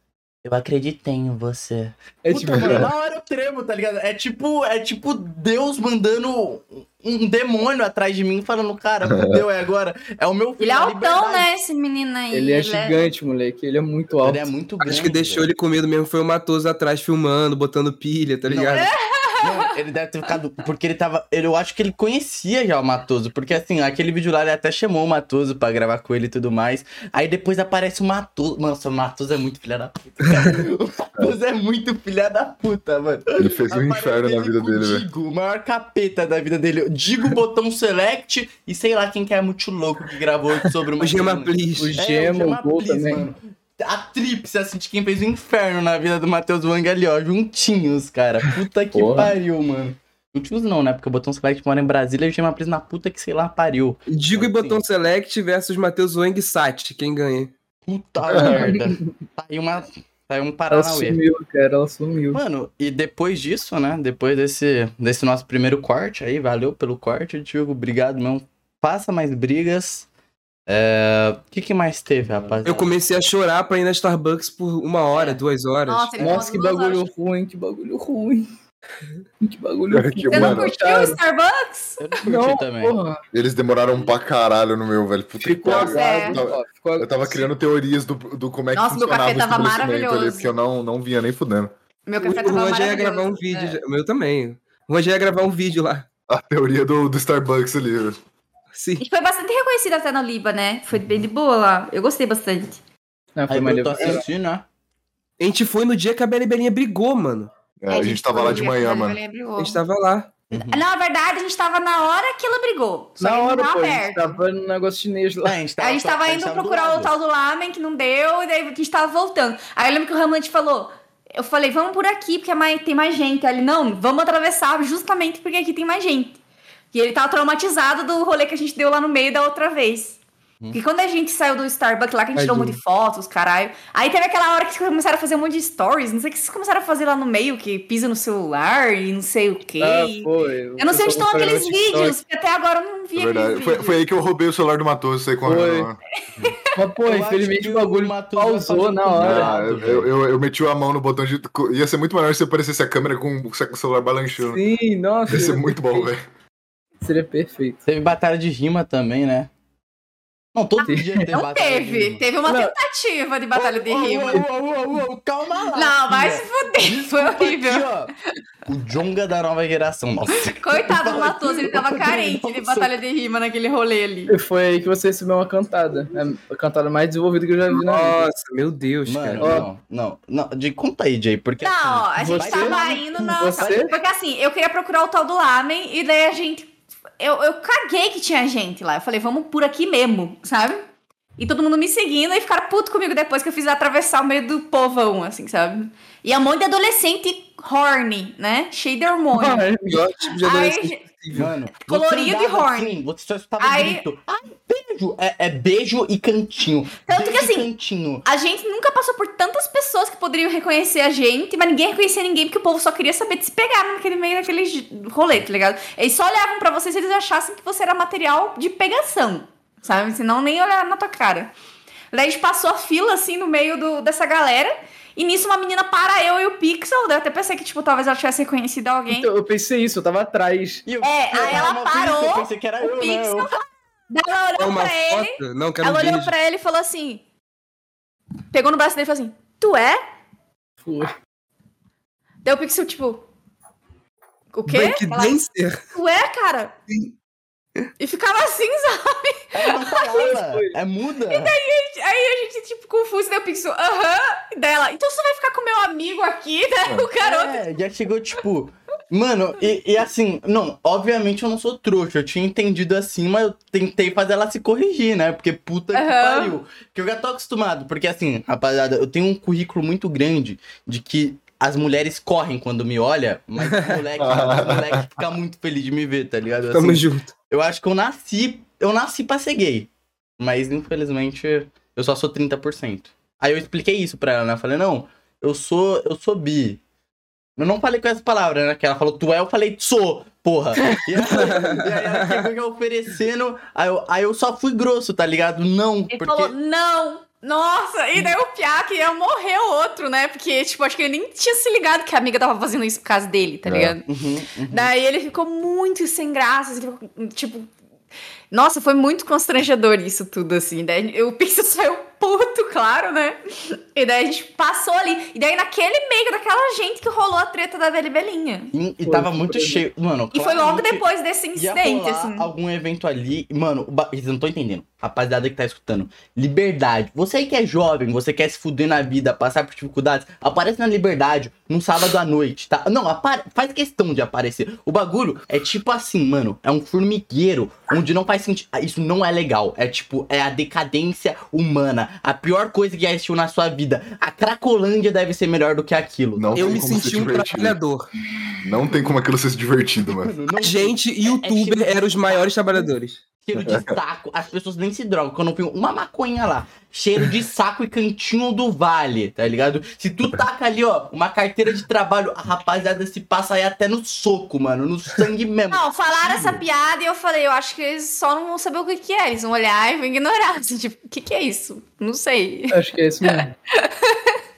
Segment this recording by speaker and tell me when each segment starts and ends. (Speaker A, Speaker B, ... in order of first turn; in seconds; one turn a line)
Speaker A: 0.4-11.5
Speaker B: 2.2-2.9
Speaker C: 9.1-9.4
Speaker D: 10.6-13.0
Speaker B: 12.3-14.5
Speaker A: 14.2-15.5
Speaker E: 14.8-18.9
Speaker A: 18.5-54.8
Speaker D: 18.7-19.7
Speaker E: 30.3-30.6
Speaker C: 33.4-35.1
Speaker E: 41.0-42.0
Speaker B: 41.8-43.3
Speaker B: 48.9-49.3
Speaker E: 54.1-57.5
Speaker A: 57.9-61.2
Speaker C: 58.3-58.6
Speaker B: 58.3-59.0
Speaker B: 60.7-62.4
Speaker A: 62.3-70.1
Speaker A: 70.7-73.0
Speaker E: 72.7-76.2
Speaker D: 75.2-77.1
Speaker B: 76.2-78.5
Speaker B: 79.4-81.2
Speaker C: 79.9-80.7
Speaker D: 80.3-82.0
Speaker A: 82.0-83.0
Speaker B: 82.3-83.2
Speaker C: 83.3-91.7
Speaker B: 85.4-87.5
Speaker D: 85.7-86.4
Speaker D: 88.8-90.5
Speaker D: 92.1-93.8
Speaker E: 92.2-96.1
Speaker C: 96.3-98.2
Speaker E: 98.7-99.0
Speaker D: 99.0-102.8
Speaker B: 103.4-104.3
Speaker A: 103.5-104.7
Speaker E: 105.4-107.5
Speaker C: 107.8-109.2
Speaker D: 107.9-109.8
Speaker E: 109.6-110.3
Speaker A: 110.5-110.8
Speaker D: 110.6-114.4
Speaker B: 113.2-115.6
Speaker A: 115.4-117.1
Speaker D: 115.8-126.4
Speaker D: 126.9-130.2
Speaker D: 130.7-144.0
Speaker E: 132.3-132.8
Speaker B: 139.8-142.2
Speaker C: 143.2-146.0
Speaker B: 145.4-145.9
Speaker B: 146.8-149.5
Speaker A: 147.1-150.1
Speaker C: 149.2-154.6
Speaker B: 154.4-156.1
Speaker C: 155.3-156.2
Speaker B: 157.0-157.8
Speaker A: 157.9-159.5
Speaker A: 160.6-162.2
Speaker D: 160.8-164.4
Speaker B: 160.9-161.3
Speaker B: 162.5-162.7
Speaker A: 163.6-168.1
Speaker D: 165.8-167.9
Speaker A: 168.7-172.9
Speaker D: 170.6-174.3
Speaker B: 174.3-178.3
Speaker E: 177.7-179.6
Speaker A: 179.1-183.8
Speaker B: 179.4-179.7
Speaker D: 181.6-190.8
Speaker B: 182.2-183.9
Speaker D: 191.4-199.7
Speaker B: 199.3-200.1
Speaker E: 199.9-201.5
Speaker D: 200.4-201.0
Speaker A: 201.3-208.2
Speaker D: 201.8-202.9
Speaker D: 203.6-204.0
Speaker D: 207.1-207.7
Speaker D: 208.2-221.5
Speaker D: 222.1-229.3
Speaker B: 229.1-230.8
Speaker A: 230.9-233.5
Speaker D: 231.0-237.2
Speaker E: 234.6-236.3
Speaker D: 238.5-240.0
Speaker B: 240.8-241.1
Speaker D: 242.4-243.3
Speaker D: 244.5-246.7
Speaker E: 244.7-245.8
Speaker D: 248.0-250.0
Speaker A: 249.5-251.6
Speaker B: 250.1-250.7
Speaker D: 251.3-257.7
Speaker A: 257.2-286.8
Speaker D: 265.9-266.6
Speaker E: 273.7-274.0
Speaker C: 274.2-275.1
Speaker E: 276.7-277.3
Speaker A: 287.6-296.5
Speaker E: 291.1-292.5
Speaker D: 296.1-304.1
Speaker C: 303.6-304.0
Speaker A: 304.1-304.9
Speaker D: 304.7-307.7
Speaker D: 308.5-318.7
Speaker A: 318.7-346.9
Speaker B: 319.1-319.9
Speaker D: 320.3-322.5
Speaker C: 346.4-347.8
Speaker E: 346.5-348.1
Speaker C: 348.6-350.3
Speaker A: 350.2-352.8
Speaker E: 350.6-353.2
Speaker A: 353.4-366.6
Speaker C: 353.6-353.9
Speaker D: 365.7-374.4
Speaker B: 372.7-373.5